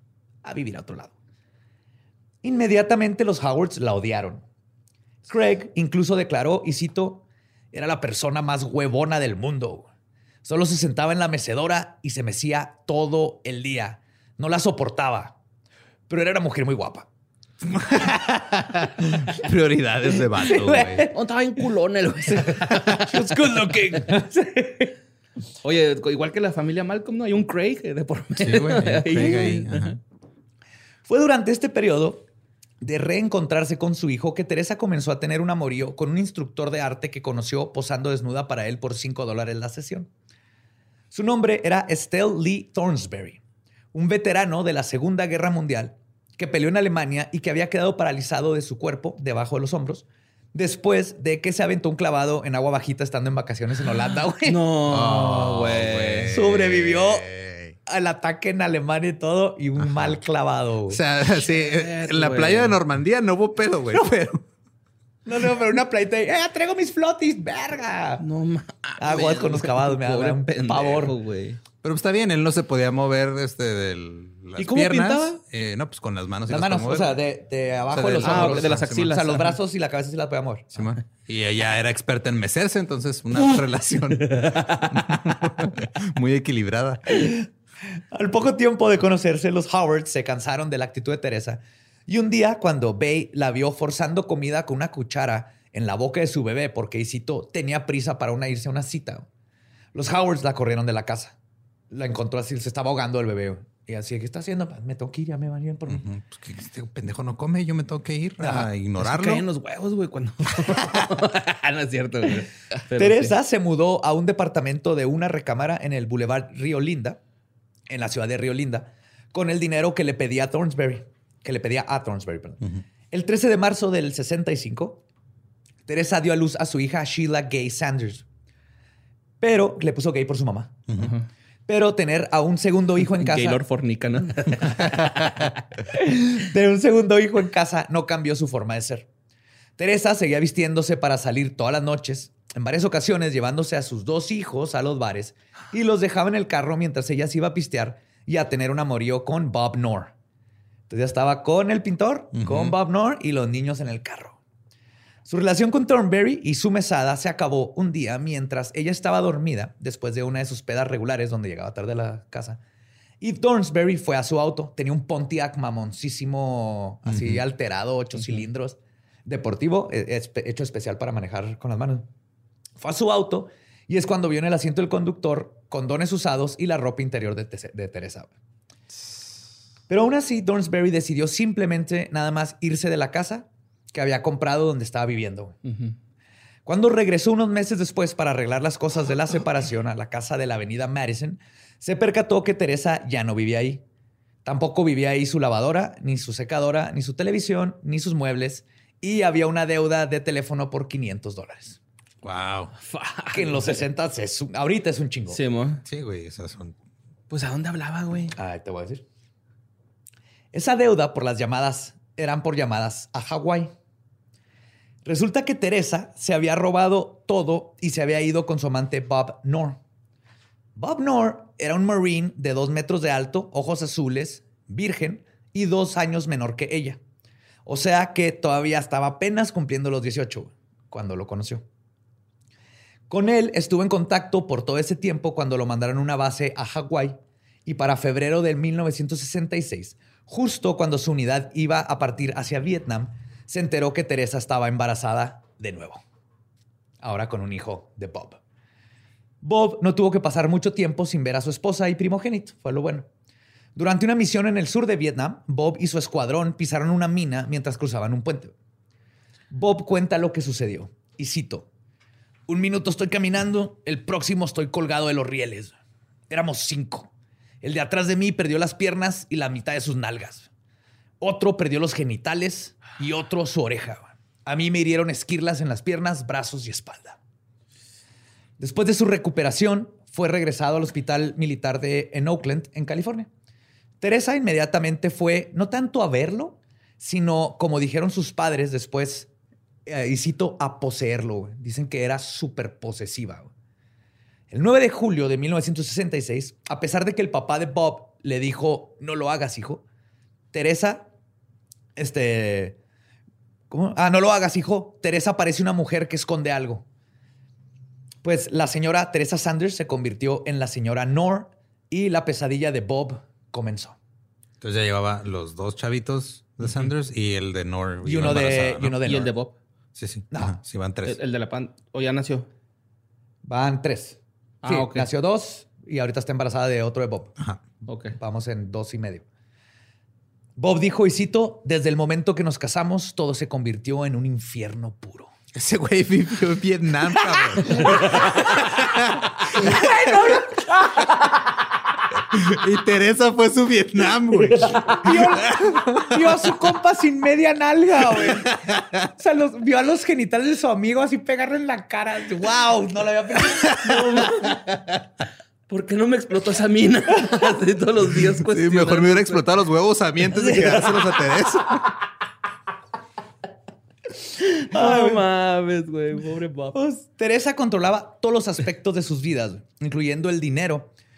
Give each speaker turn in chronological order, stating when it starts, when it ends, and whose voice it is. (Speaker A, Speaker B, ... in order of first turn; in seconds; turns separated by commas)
Speaker A: 0.4-1.1, Speaker A: 2.4-4.4, Speaker A: 5.2-9.9, Speaker A: 10.4-15.4, Speaker A: 16.1-17.1, Speaker B: 17.7-21.1, Speaker C: 20.4-24.9, Speaker A: 20.5-21.1, Speaker A: 22.3-24.3, Speaker C: 25.6-30.0, Speaker B: 28.4-30.0, Speaker A: 31.1-32.3, Speaker A: 32.8-40.1, Speaker A: 41.1-43.4, Speaker A: 43.9-54.6, Speaker C: 54.4-56.4, Speaker B: 54.9-57.8, Speaker A: 56.3-57.3, Speaker A: 57.9-61.0, Speaker B: 60.9-64.5, Speaker C: 61.5-62.8, Speaker A: 65.3-68.2, Speaker C: 68.2-71.6, Speaker A: 69.0-71.2, Speaker B: 71.8-77.2, Speaker A: 74.6-75.3, Speaker C: 74.6-75.3, Speaker A: 76.5-80.9, Speaker B: 77.9-79.2, Speaker C: 78.2-79.6, Speaker B: 80.8-87.3, Speaker C: 84.2-85.3, Speaker A: 88.1-99.3, Speaker A: 99.9-101.3, Speaker A: 101.9-106.0, Speaker B: 105.9-109.4, Speaker C: 108.4-113.3, Speaker A: 113.0-117.2, Speaker A: 117.9-125.0, Speaker A: 125.9-128.2, Speaker A: 129.4-130.8, Speaker B: 130.9-131.2, Speaker C: 131.0-131.2, Speaker A: 131.7-133.6, Speaker C: 133.0-135.5, Speaker A: 135.9-139.1, Speaker A: 139.8-150.1, Speaker A: 150.9-154.4, Speaker B: 152.3-152.7, Speaker A: 155.2-162.6, Speaker A: 163.2-172.1, Speaker B: 167.1-167.4, Speaker A: 172.8-178.3, Speaker A: 179.9-185.6, Speaker C: 185.7-185.9, Speaker A: 186.7-193.8, Speaker A: 194.4-201.8, Speaker B: 202.2-202.8, Speaker C: 202.9-203.8, Speaker A: 203.3-205.4, Speaker C: 205.3-205.8, Speaker B: 205.8-206.8, Speaker C: 207.3-208.3, Speaker A: 208.3-209.1, Speaker A: 210.5-213.7, Speaker A: 215.1-219.8, Speaker A: 220.8-227.0, Speaker A: 227.7-231.7, Speaker A: 233.1-246.0, Speaker A: 247.0-248.4, Speaker A: 249.4-253.1, Speaker A: 253.8-258.5, Speaker A: 259.5-261.7, Speaker A: 262.5-265.8, Speaker A: 266.3-267.1, Speaker A: 267.6-270.5, Speaker A: 271.2-277.2, Speaker A: 278.6-283.3, Speaker A: 284.0-289.3, Speaker A: 289.9-293.5, Speaker A: 294.5-299.8, Speaker A: 300.5-301.1, Speaker A: 302.0-302.8, Speaker A: 303.7-306.9, Speaker A: 308.2-314.0, Speaker B: 314.6-319.0, Speaker A: 318.0-319.3, Speaker C: 319.0-319.6, Speaker B: 320.0-321.2, Speaker A: 320.3-320.6, Speaker C: 321.1-322.5, Speaker A: 323.4-327.4, Speaker C: 324.6-325.1, Speaker C: 327.9-328.2, Speaker A: 328.1-329.2, Speaker A: 330.6-335.3, Speaker B: 335.6-340.4, Speaker A: 339.6-341.2, Speaker B: 342.3-346.1, Speaker C: 344.6-344.9, Speaker A: 344.7-348.6, Speaker B: 348.2-348.9, Speaker A: 349.2-354.1, Speaker C: 353.8-354.6, Speaker C: 355.7-359.4, Speaker B: 358.5-361.9, Speaker A: 360.4-360.9, Speaker C: 360.5-361.0, Speaker C: 364.4-366.8, Speaker A: 364.7-365.2, Speaker A: 366.7-370.9